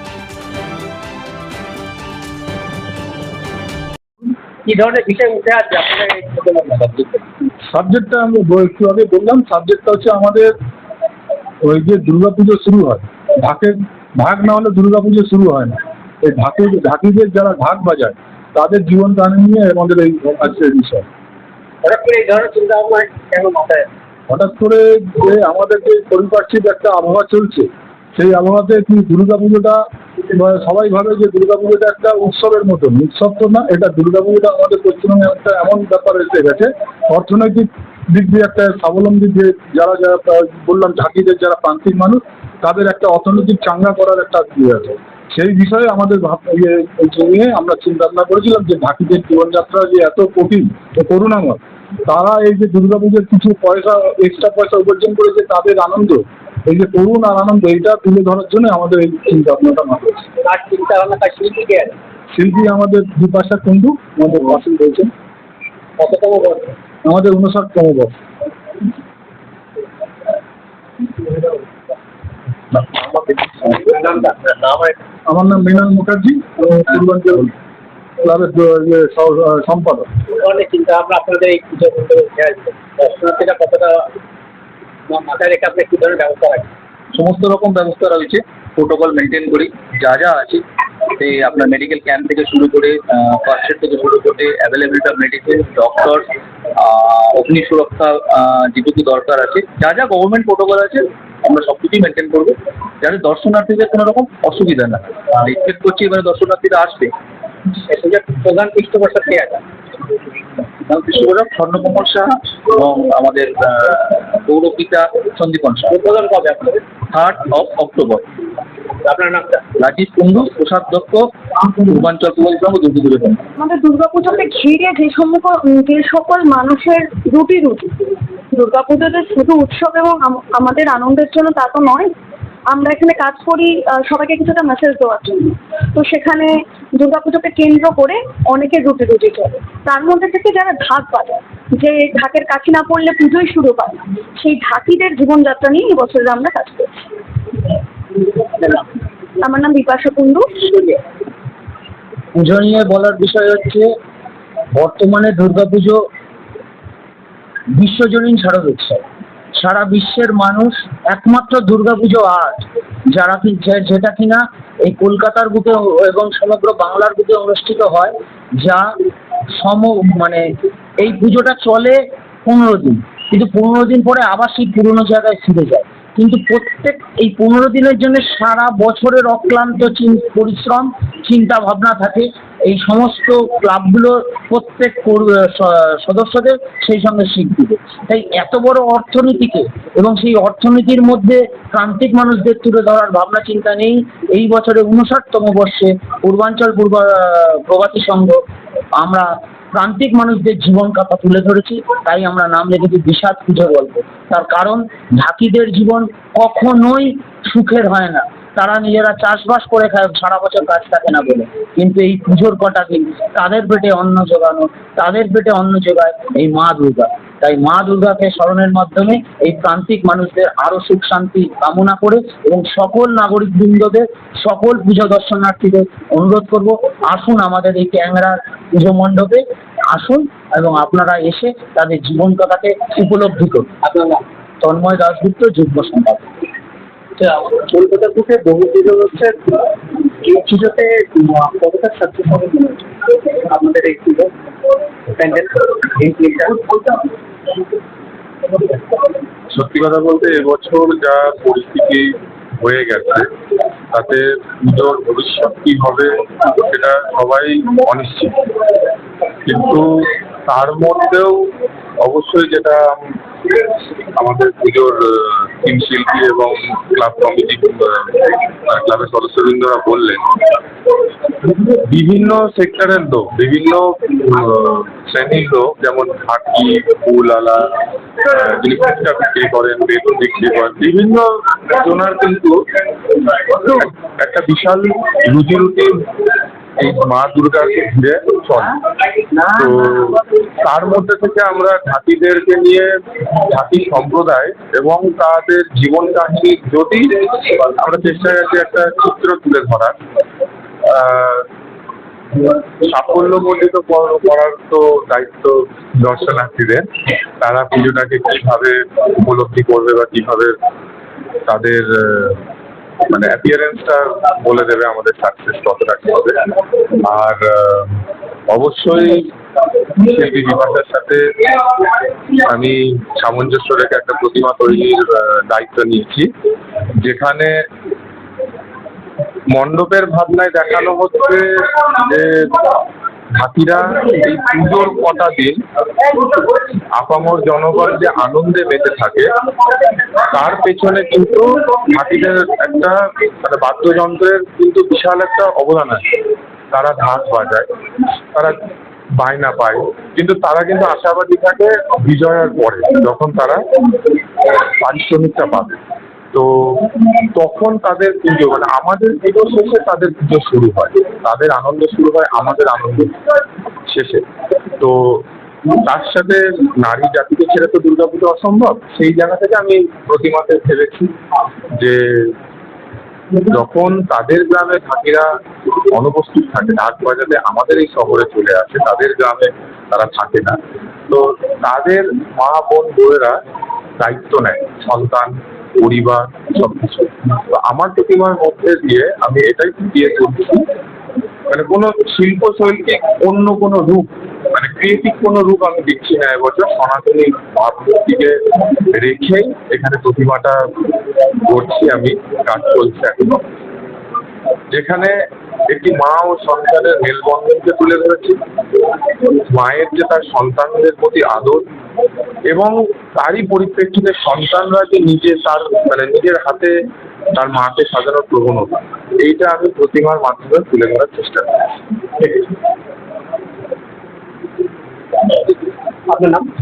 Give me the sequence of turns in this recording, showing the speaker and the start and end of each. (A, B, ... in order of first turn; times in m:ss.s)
0:04.6-0:07.2 A
0:07.6-0:10.5 B
0:11.6-0:21.0 B
0:21.8-0:23.9 A
0:24.3-1:00.3 B
1:00.4-1:02.0 A
1:02.3-1:05.1 B
1:06.0-1:06.7 A
1:07.0-1:08.1 B
1:12.8-1:13.9 B
1:13.9-1:15.0 A
1:15.3-1:17.5 B
1:18.2-1:20.1 B
1:20.3-1:24.1 A
1:25.1-1:26.7 A
1:27.1-1:47.1 C
1:47.8-1:49.6 A
1:50.8-1:56.0 C
1:55.9-1:56.8 A
1:57.1-1:58.2 C
1:59.0-1:59.7 A
1:59.8-2:03.4 C
2:03.6-2:12.1 D
2:12.7-2:26.9 D
2:29.4-2:30.9 D
2:32.4-2:33.9 E
2:34.7-2:36.0 E
2:37.8-2:39.0 E
2:39.6-2:42.6 E
2:43.1-2:48.8 E
2:49.6-2:50.5 E
2:51.0-3:18.4 E
3:19.0-3:49.4 E
3:49.9-3:53.7 E
3:53.8-3:54.2 A
3:54.6-3:56.2 E
3:57.2-3:59.6 A
4:00.2-4:04.3 A
4:05.1-4:07.0 A
4:09.5-4:13.3 F
4:13.9-4:18.4 F
4:19.4-4:21.5 F
4:22.0-4:30.2 F
4:31.5-4:42.6 F
4:43.1-4:46.0 F
4:46.8-4:48.8 F
4:49.4-5:00.0 F
5:00.9-5:01.5 F
5:02.4-5:10.5 F
5:11.4-5:12.4 F
5:13.1-5:16.4 F
5:17.0-5:19.3 F
5:20.0-5:21.6 F
5:22.4-5:26.3 F
5:27.0-5:27.5 F
5:29.5-5:32.8 F
5:33.4-5:35.6 F
5:36.9-5:39.3 F
5:40.2-5:46.0 F
5:46.7-5:47.7 F
5:48.3-5:48.6 F
5:49.2-5:53.6 F
5:54.5-5:55.8 F
5:56.3-6:03.2 F
6:03.9-6:04.2 F
6:04.8-6:05.2 F
6:05.8-6:11.1 F
6:11.8-6:12.3 F
6:13.5-6:15.3 F
6:15.9-6:23.4 F
6:24.0-6:30.6 F
6:31.5-6:38.3 F
6:38.9-6:40.6 F
6:41.4-6:43.4 F
6:44.7-6:45.1 F
6:45.7-6:48.4 F
6:49.5-6:51.6 F
6:52.5-6:56.7 F
6:57.3-7:02.5 F
7:06.1-7:06.4 A